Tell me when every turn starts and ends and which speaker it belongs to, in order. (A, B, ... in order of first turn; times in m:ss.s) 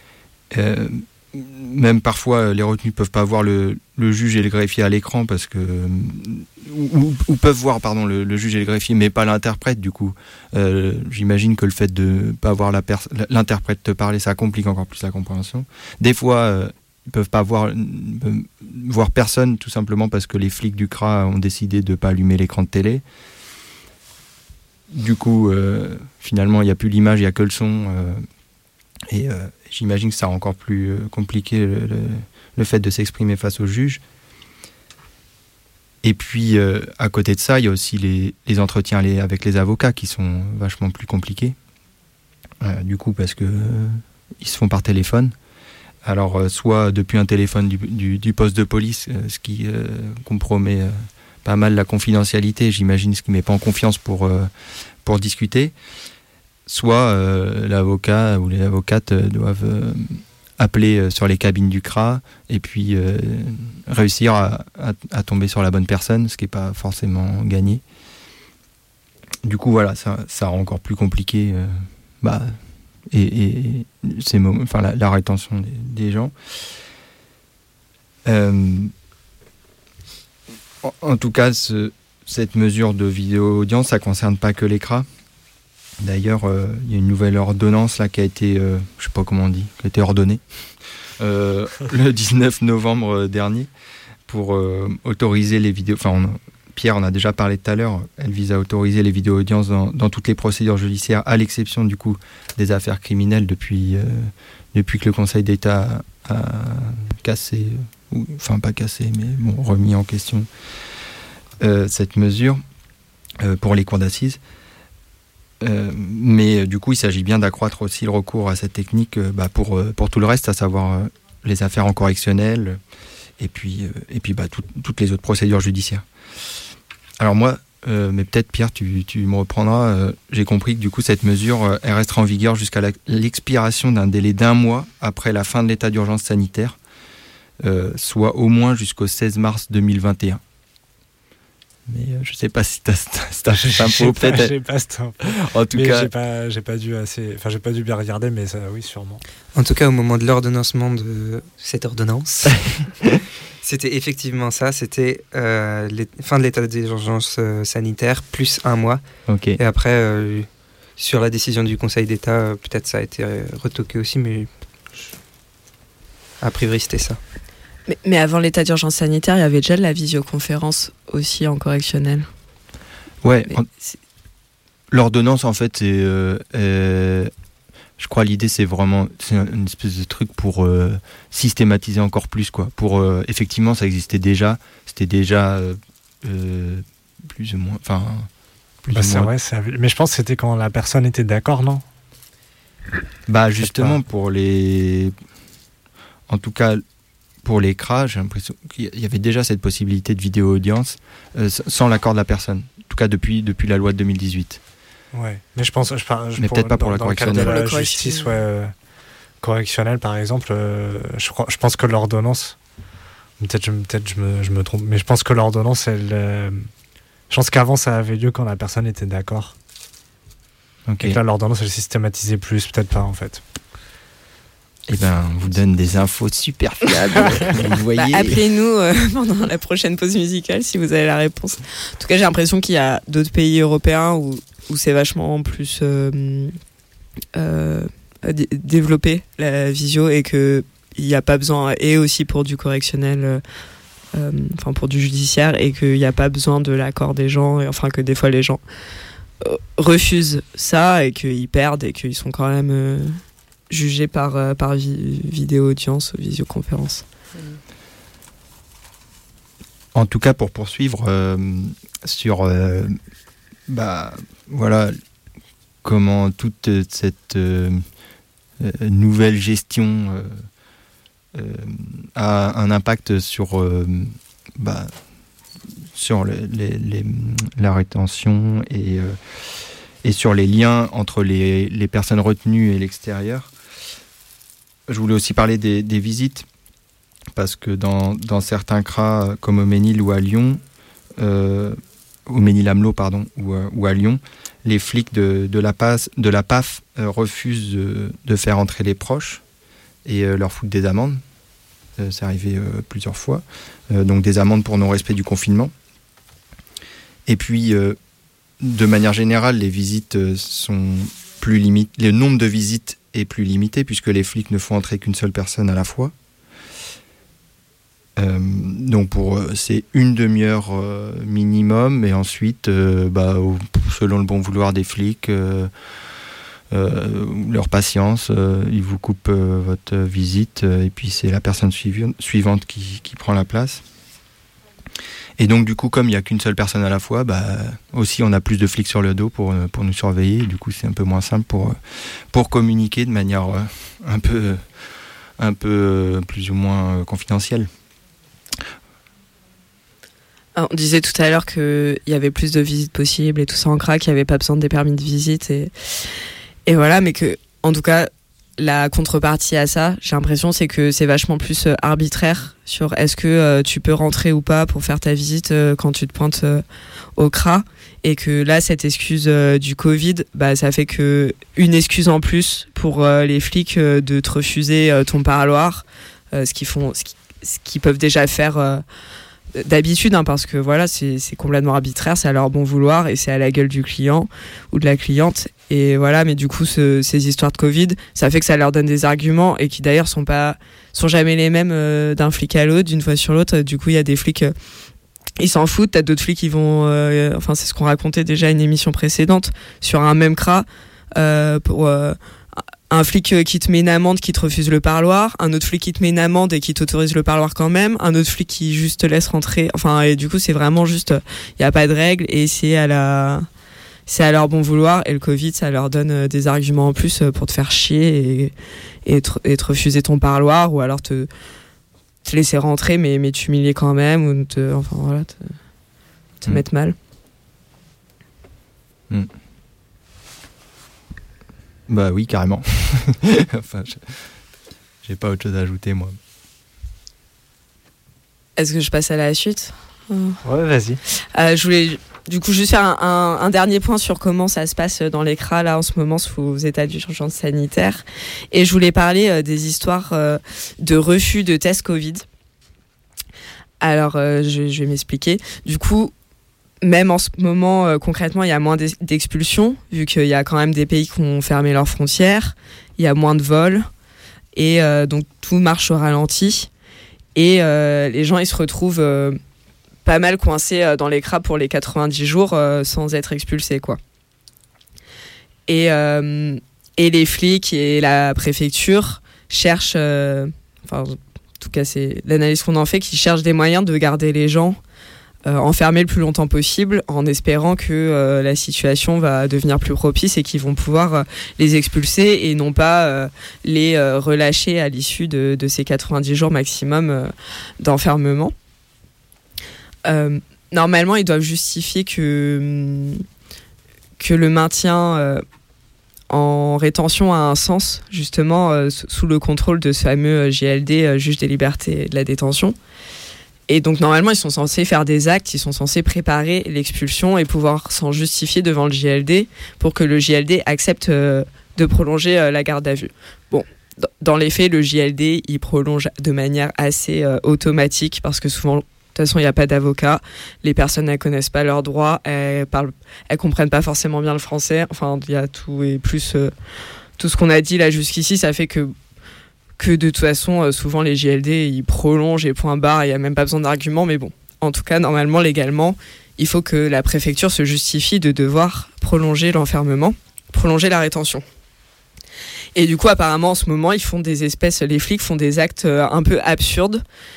0:00.5-0:23.0 A
0:24.9-0:28.2 A
0:29.1-0:34.0 A
0:36.0-0:41.6 A
0:42.6-0:45.3 A
0:46.0-0:54.5 A
0:55.0-0:55.7 A
0:56.7-1:07.8 A
1:09.4-1:12.6 A
1:13.1-1:16.3 A
1:18.2-1:18.9 A
1:20.8-1:25.1 A
1:26.0-1:30.4 A
1:31.2-1:33.7 A
1:34.3-1:50.5 A
1:51.6-1:52.6 A
1:53.4-1:54.4 A
1:55.6-2:02.8 A
2:03.4-2:06.0 A
2:07.2-2:16.8 A
2:17.6-2:20.4 A
2:21.9-2:24.5 A
2:23.6-2:29.2 B
2:25.3-2:26.1 A
2:29.6-2:39.0 C
2:39.3-2:39.6 A
2:39.6-2:44.5 C
2:46.4-2:47.2 C
2:47.9-2:52.3 D
2:53.2-2:53.7 A
2:54.9-2:57.3 A
2:58.0-3:08.3 A
3:08.8-3:09.3 A
3:08.9-3:11.8 B
3:13.3-3:15.1 A
3:13.6-3:14.0 B
3:16.3-3:16.8 A
3:17.4-3:24.6 A
3:25.1-3:28.7 B
3:26.4-3:27.8 A
3:27.3-3:28.4 D
3:29.4-3:32.6 B
3:33.4-3:36.7 B
3:37.3-3:39.5 B
3:40.9-3:41.2 A
3:41.0-3:43.4 B
3:44.9-3:48.4 A
3:48.0-3:56.5 D
3:57.3-4:03.4 D
4:04.1-4:08.6 D
4:09.4-4:17.0 D
4:19.9-4:23.0 A
4:23.7-4:25.0 A
4:25.8-4:27.8 A
4:28.6-4:30.4 A
4:31.3-4:34.9 A
4:35.9-4:39.2 A
4:40.0-4:43.5 A
4:44.9-4:46.4 A
4:47.3-4:50.6 A
4:51.2-4:59.4 A
5:00.0-5:01.2 A
5:02.0-5:05.7 A
5:07.3-5:08.0 A
5:08.6-5:16.1 A
5:18.2-5:25.7 A
5:26.7-5:33.8 A
5:35.4-5:41.8 A
5:42.3-5:44.6 A
5:45.4-5:47.7 A
5:50.6-5:55.7 D
5:56.6-6:06.6 D
6:07.2-6:18.8 D
6:19.5-6:34.5 D
6:35.4-6:53.5 D
6:54.1-6:58.5 D
6:59.0-7:01.3 D
7:02.2-7:05.6 D
7:06.4-7:06.9 D
7:11.9-7:14.3 A
7:15.0-7:16.2 A
7:18.6-7:20.4 D
7:20.4-7:21.0 B
7:21.3-7:32.2 D
7:33.8-7:36.1 D
7:36.8-7:43.9 D
7:44.5-7:46.7 D
7:47.3-7:49.4 D
7:50.0-7:54.0 D
7:55.7-8:04.8 D
8:05.4-8:18.5 D
8:20.0-8:23.2 D
8:24.2-8:25.4 D
8:26.3-8:32.8 D
8:33.7-8:56.5 D
8:57.2-8:58.9 D
8:59.8-9:11.4 D
9:12.7-9:17.0 D